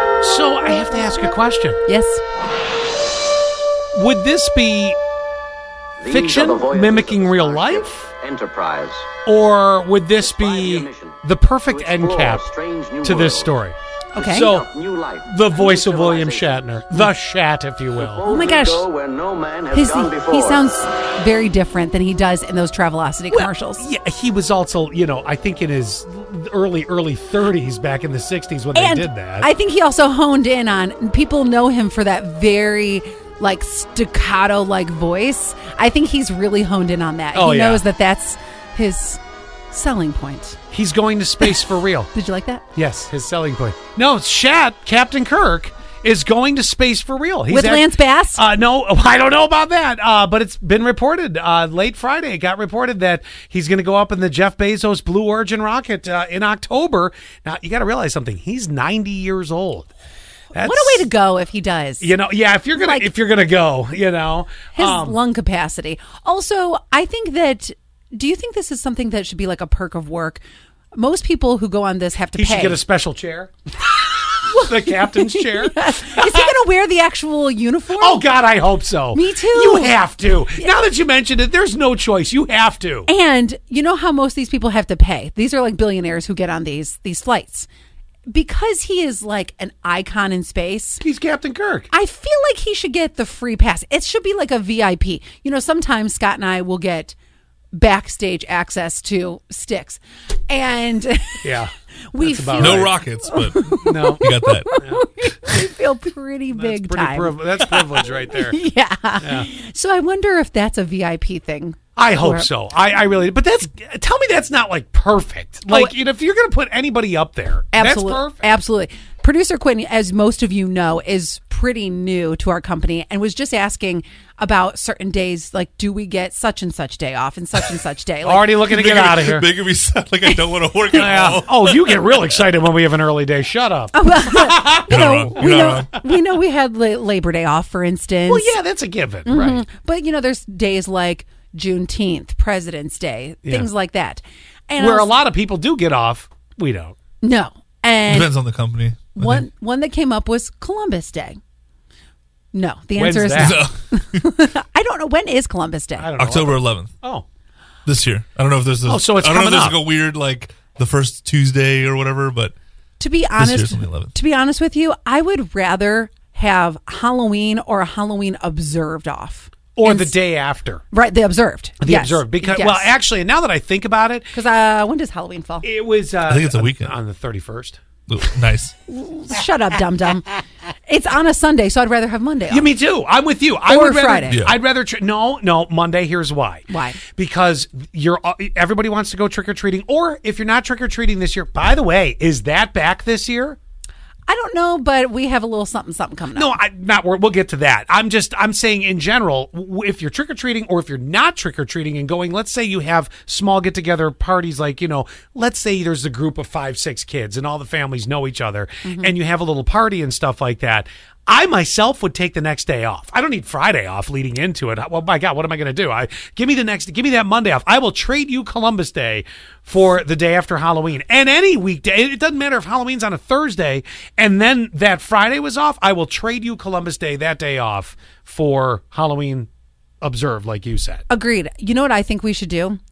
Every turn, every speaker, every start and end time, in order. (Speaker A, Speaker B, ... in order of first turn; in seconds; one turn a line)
Speaker A: 0.2-1.8
Speaker B: 1.9-2.2
Speaker A: 3.9-5.0
Speaker C: 6.0-9.1
Speaker A: 6.1-8.1
Speaker A: 9.3-12.5
Speaker C: 10.2-11.2
Speaker C: 11.7-13.6
Speaker A: 13.0-14.7
Speaker B: 14.1-14.6
Speaker C: 14.4-16.6
Speaker A: 15.2-18.2
Speaker C: 18.0-20.6
Speaker B: 18.2-18.9
Speaker B: 19.7-23.8
Speaker A: 23.3-29.5
Speaker B: 28.7-40.6
Speaker A: 37.3-37.8
Speaker A: 40.7-42.1
Speaker B: 42.1-42.6
Speaker A: 42.7-59.9
Speaker B: 47.5-48.4
Speaker A: 60.5-61.1
Speaker B: 60.5-62.1
Speaker A: 62.0-65.2
Speaker B: 62.7-63.1
Speaker B: 64.7-70.4
Speaker B: 71.0-72.8
Speaker A: 72.4-73.5
Speaker B: 73.9-78.2
Speaker A: 74.5-76.6
Speaker A: 77.9-83.1
Speaker B: 79.1-80.0
Speaker B: 83.1-87.7
Speaker B: 88.3-91.0
Speaker A: 91.0-91.9
Speaker B: 91.9-97.2
Speaker B: 97.7-101.6
Speaker A: 101.4-102.9
Speaker B: 102.1-112.5
Speaker D: 102.6-104.8
Speaker A: 103.8-104.2
Speaker A: 106.5-108.6
Speaker A: 109.2-109.5
Speaker A: 112.0-118.5
Speaker B: 115.7-115.9
Speaker B: 117.7-128.6
Speaker A: 128.2-129.5
Speaker D: 128.6-132.2
Speaker A: 130.9-135.8
Speaker B: 133.9-138.5
Speaker D: 134.9-135.9
Speaker A: 138.3-139.6
Speaker B: 139.2-145.1
Speaker A: 143.4-143.7
Speaker A: 144.8-147.0
Speaker B: 147.2-148.3
Speaker D: 148.1-149.4
Speaker B: 149.2-151.4
Speaker B: 152.5-156.1
Speaker A: 153.0-153.6
Speaker D: 153.4-154.3
Speaker A: 156.0-157.2
Speaker D: 156.2-156.9
Speaker D: 157.8-162.5
Speaker A: 158.8-159.8
Speaker B: 163.0-170.2
Speaker D: 163.4-164.1
Speaker A: 169.8-170.8
Speaker B: 170.9-172.9
Speaker A: 171.8-174.3
Speaker B: 174.3-175.7
Speaker A: 175.6-177.8
Speaker D: 176.3-176.9
Speaker D: 178.1-178.7
Speaker B: 178.9-180.3
Speaker B: 180.9-182.7
Speaker A: 182.5-193.6
Speaker B: 183.7-184.4
Speaker D: 184.3-184.5
Speaker B: 186.7-187.0
Speaker B: 194.3-196.6
Speaker A: 196.3-229.5
Speaker B: 208.8-209.1
Speaker A: 230.0-231.0
Speaker B: 231.1-232.8